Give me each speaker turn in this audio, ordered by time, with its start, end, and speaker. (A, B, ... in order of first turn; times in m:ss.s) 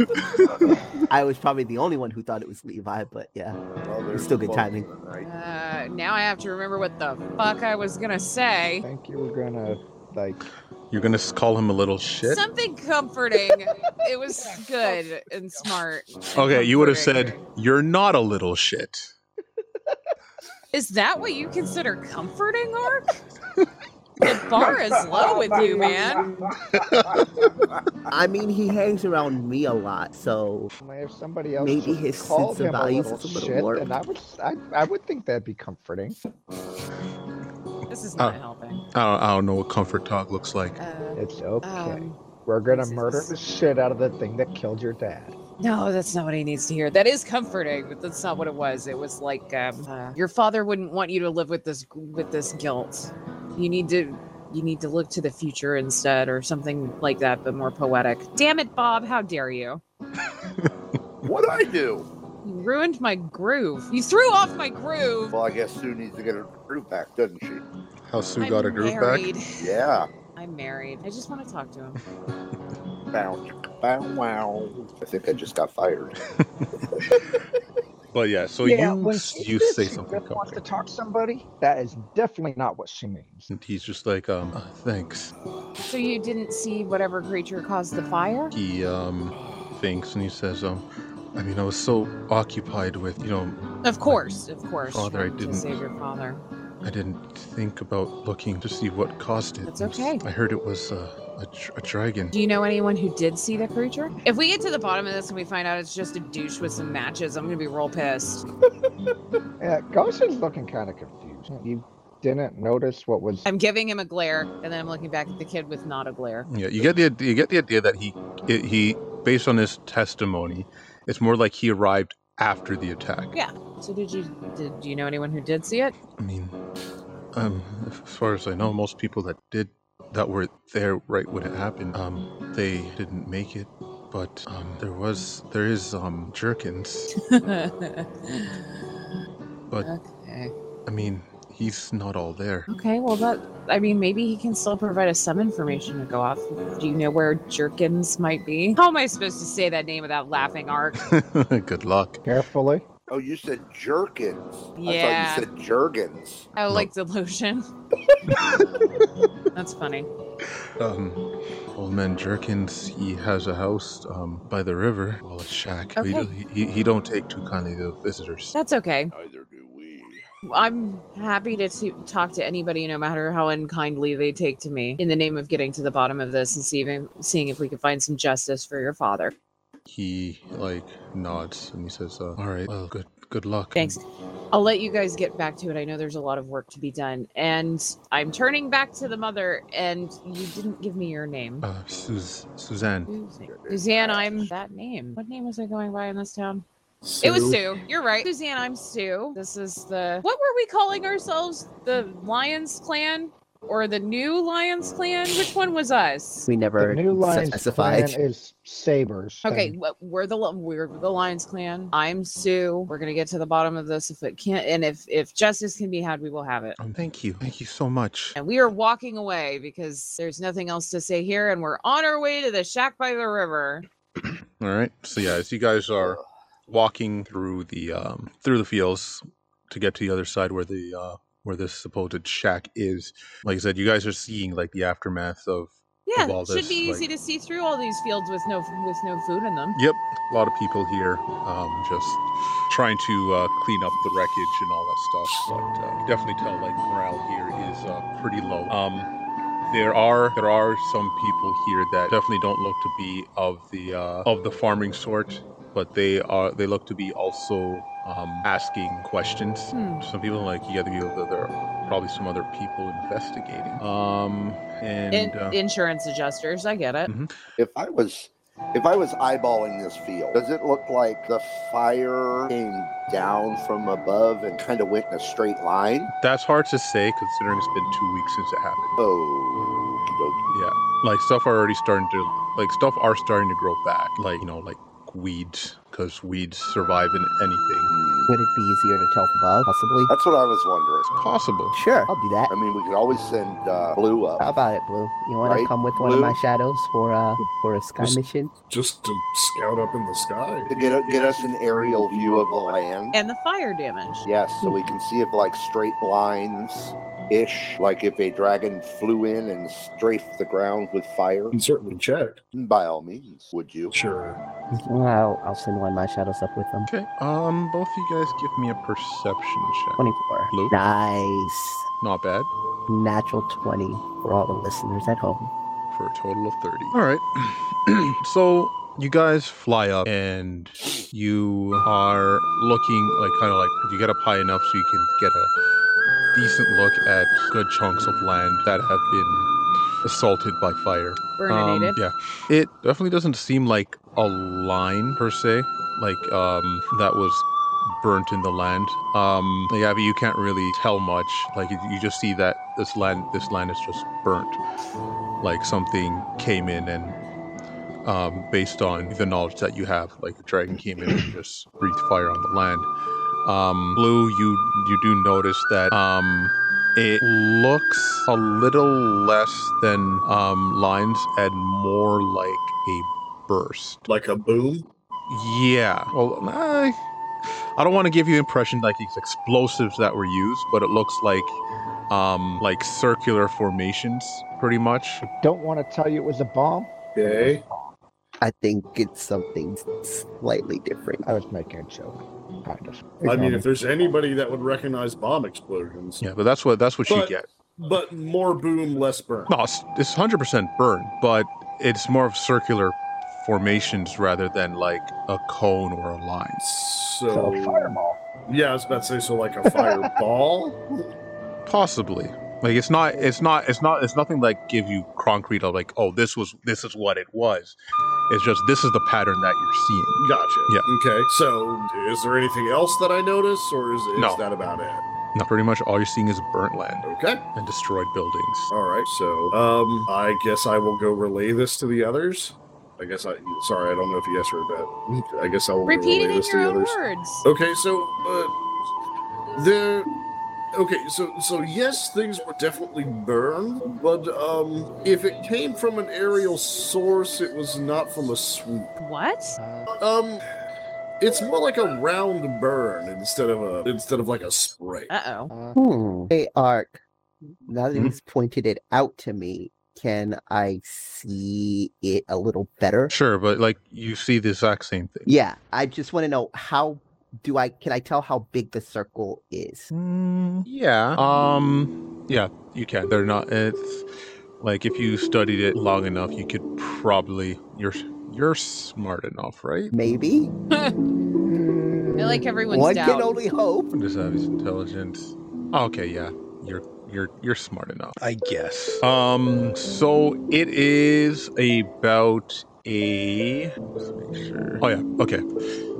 0:01.1-0:03.6 A
0:03.8-0:05.2 B
0:04.1-0:04.9 A
0:05.2-0:08.8 C
0:08.8-0:10.4 D
0:10.9-0:12.4 E
0:12.2-0:17.4 C
0:14.5-0:15.0 D
0:16.3-0:19.1 E
0:20.7-0:23.2 C
0:24.2-0:26.3 C
0:25.5-0:25.9 D
0:28.1-0:30.7 A
0:30.8-0:36.2 D
0:31.6-0:33.9 A
0:37.9-0:38.8 C
0:38.9-0:40.8 E
0:40.8-0:42.2 C
0:41.1-0:45.4 D
0:42.7-0:43.3 C
0:45.6-0:59.8 C
1:00.4-1:00.7 E
1:01.2-1:02.1 B
1:02.4-1:05.3 C
1:05.3-1:07.6 B
1:08.1-1:09.3 E
1:08.4-1:09.8 C
1:09.6-1:10.1 B
1:10.4-1:12.0 C
1:13.1-1:16.2 B
1:18.1-1:20.6 E
1:18.6-1:23.5 D
1:23.5-1:25.3 E
1:25.9-1:28.5 C
1:28.5-1:34.2 E
1:33.8-1:36.4 C
1:34.9-1:35.8 E
1:36.8-1:42.3 E
1:39.6-1:40.2 C
1:42.3-1:48.4 C
1:49.6-1:53.4 D
1:53.4-1:56.5 C
1:56.5-2:03.4 E
2:03.3-2:05.9 C
2:06.2-2:06.6 E
2:07.3-2:17.1 E
2:17.2-2:18.6 C
2:19.8-2:20.5 C
2:20.8-2:22.7 E
2:22.7-2:31.1 C
2:31.0-2:32.2 E
2:32.2-2:32.8 D
2:33.1-2:36.5 B
2:34.8-2:35.5 C
2:36.6-2:37.6 C
2:39.5-2:40.1 C
2:40.8-2:48.5 E
2:46.0-2:46.3 C
2:48.5-2:49.1 C
2:49.1-2:50.2 B
2:50.4-2:59.3 C
2:59.9-3:04.0 E
3:03.7-3:11.6 C
3:11.6-3:13.1 E
3:13.1-3:16.6 C
3:13.4-3:14.5 B
3:17.0-3:17.7 F
3:17.2-3:26.5 C
3:26.5-3:28.2 A
3:26.8-3:29.7 D
3:29.4-3:36.8 C
3:36.8-3:38.4 E
3:38.4-3:43.8 C
3:44.6-3:57.0 E
3:56.0-3:59.8 C
3:59.7-4:09.1 E
4:09.7-4:25.6 E
4:19.7-4:20.0 C
4:25.1-4:27.1 C
4:27.1-4:27.3 E
4:27.6-4:36.1 B
4:36.2-4:39.0 E
4:39.0-4:40.5 B
4:40.5-4:47.9 E
4:47.9-4:48.3 B
4:48.3-4:50.1 A
4:50.1-4:51.1 B
4:51.1-4:51.8 E
4:51.7-4:52.5 A
4:52.5-4:54.4 B
4:54.4-4:58.5 A
4:55.4-4:56.4 B
4:58.7-5:02.8 F
5:00.7-5:03.2 B
5:03.1-5:04.3 C
5:04.2-5:11.6 B
5:11.5-5:12.4 F
5:12.5-5:13.9 B
5:13.9-5:14.4 F
5:14.7-5:16.9 A
5:16.8-5:20.8 E
5:20.0-5:21.8 A
5:22.0-5:22.5 E
5:22.9-5:25.5 A
5:25.9-5:35.5 E
5:36.3-5:39.5 E
5:40.0-5:54.6 E
5:41.4-5:42.0 C
5:55.4-5:57.2 E
5:58.0-6:02.9 E
6:03.4-6:14.0 E
6:14.1-6:14.9 F
6:15.3-6:17.0 E
6:17.8-6:21.6 E
6:22.1-6:25.2 E
6:25.2-6:27.9 D
6:27.1-6:27.6 F
6:28.4-6:31.2 A
6:31.2-6:33.6 D
6:33.2-6:36.2 F
6:36.2-6:37.5 E
6:37.1-6:39.5 F
6:39.5-6:46.6 E
6:46.6-6:51.0 F
6:47.3-6:48.2 D
6:49.7-6:50.1 D
6:51.6-6:57.8 E
6:58.3-7:00.9 E
7:00.2-7:05.0 F
7:04.2-7:04.4 E
7:05.3-7:08.7 E
7:07.0-7:07.4 F
7:08.7-7:18.6 F
7:15.8-7:17.4 C
7:19.5-7:20.1 F
7:20.7-7:28.9 F
7:29.0-7:29.6 C
7:29.6-7:29.9 D
7:30.0-7:30.4 F
7:31.2-7:35.1 F
7:35.1-7:35.5 C
7:35.5-7:35.8 D
7:35.7-7:37.0 A
7:37.6-7:43.1 A
7:43.1-7:45.3 E
7:45.2-7:49.9 A
7:49.9-7:54.1 E
7:54.6-7:59.9 E
7:59.9-8:00.5 A
8:01.1-8:03.9 A
8:02.2-8:03.4 C
8:03.9-8:15.4 E